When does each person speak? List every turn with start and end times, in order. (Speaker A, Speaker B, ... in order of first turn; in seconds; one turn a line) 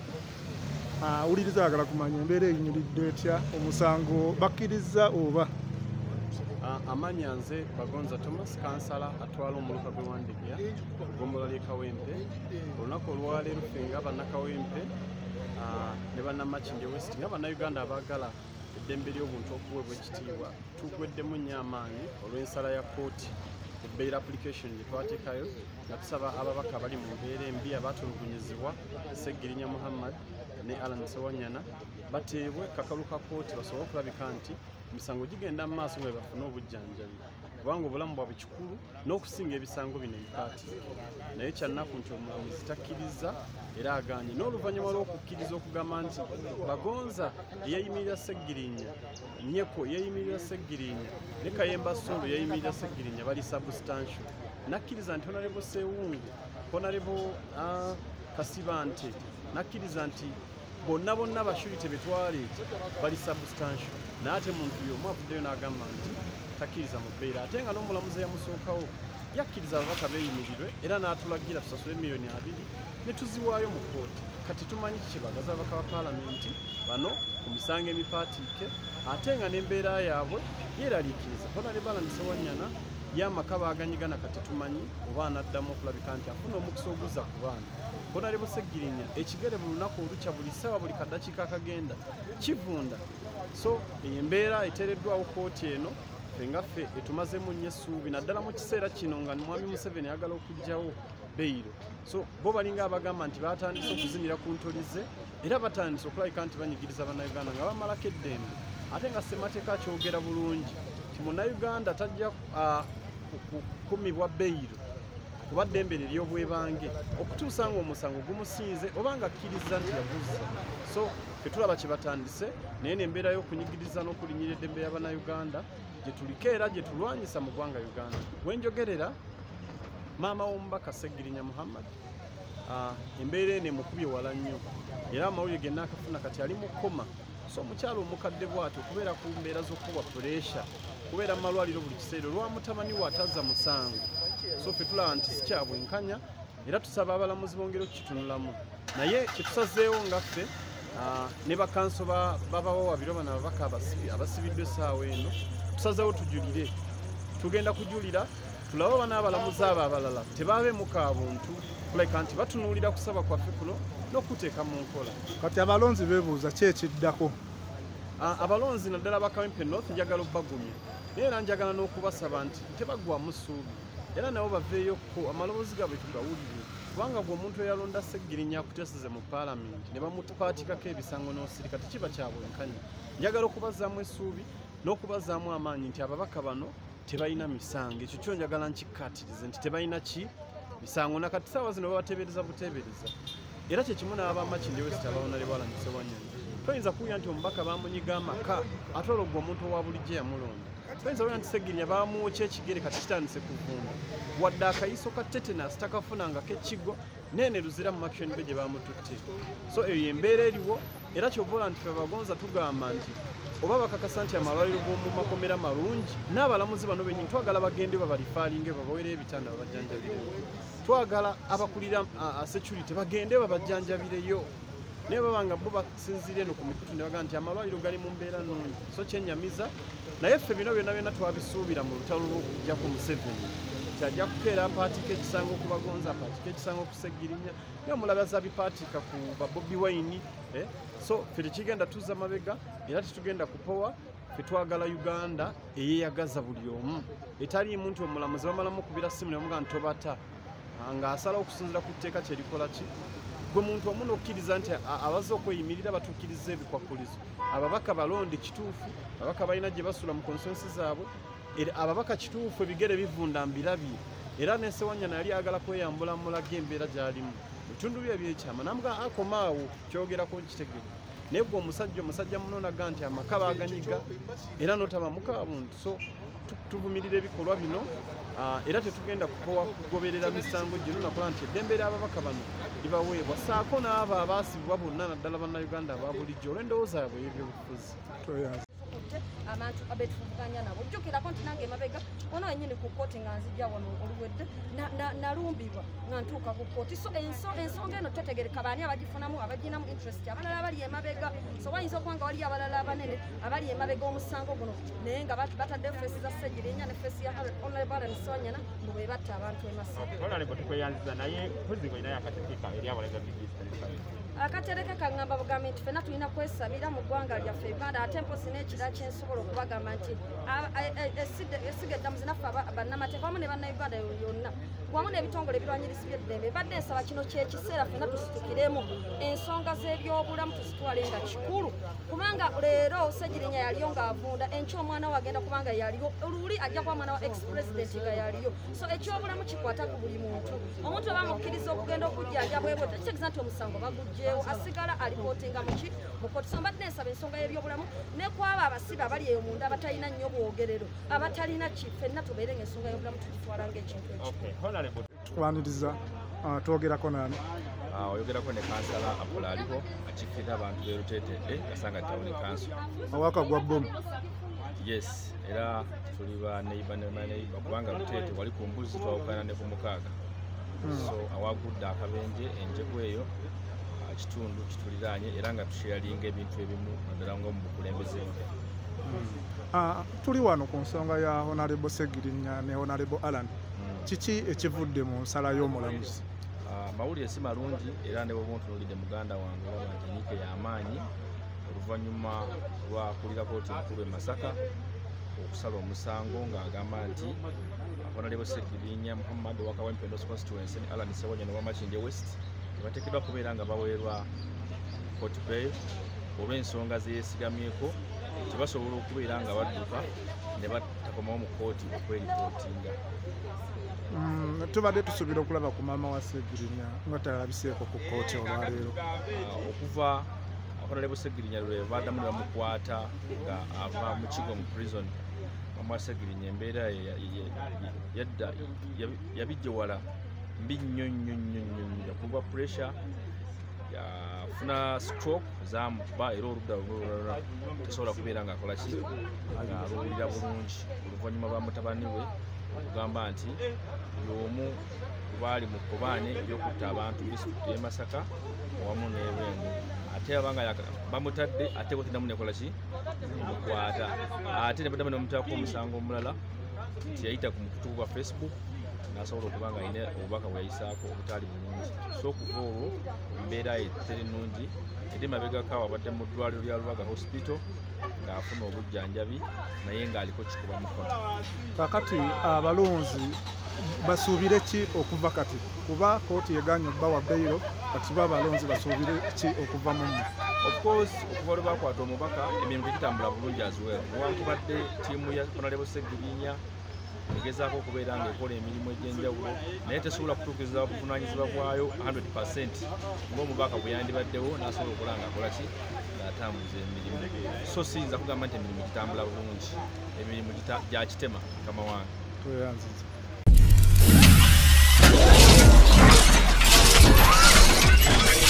Speaker A: 1.0-5.5
Speaker B: 6.6-12.2
Speaker B: 12.8-14.9
Speaker B: 15.6-40.7
Speaker B: 41.4-114.8
Speaker B: 115.5-129.2
Speaker B: 130.2-131.9
Speaker B: 132.7-156.7
Speaker B: 157.4-165.2
Speaker A: 165.4-167.4
Speaker B: 168.2-193.1
Speaker B: 193.7-224.5
Speaker B: 225.1-250.2
Speaker B: 250.8-252.9
Speaker B: 253.5-274.1
Speaker B: 274.6-288.0
Speaker A: 288.2-288.6
Speaker C: 288.8-310.0
Speaker D: 309.9-314.2
Speaker C: 314.4-354.3
Speaker D: 354.2-355.1
Speaker A: 355.3-357.4
Speaker E: 357.9-362.8
Speaker A: 363.1-363.9
Speaker E: 364.8-370.1
Speaker A: 370.8-371.1
Speaker E: 370.9-373.3
Speaker E: 374.0-378.4
Speaker A: 379.1-383.5
Speaker E: 383.8-384.1
Speaker A: 384.1-386.2
Speaker E: 386.6-391.1
Speaker E: 391.7-394.6
Speaker E: 395.4-397.4
Speaker E: 398.0-404.3
Speaker E: 405.2-405.8
Speaker E: 406.4-413.0
Speaker A: 414.1-419.0
Speaker E: 419.3-425.2
Speaker E: 425.8-430.1
Speaker E: 430.6-433.0
Speaker E: 433.9-443.6
Speaker E: 444.2-452.8
Speaker E: 453.3-456.4
Speaker E: 457.1-458.6
Speaker E: 459.1-467.6
Speaker E: 468.2-471.2
Speaker A: 471.8-480.3
Speaker E: 480.6-486.6
Speaker E: 487.3-502.1
Speaker A: 502.4-503.1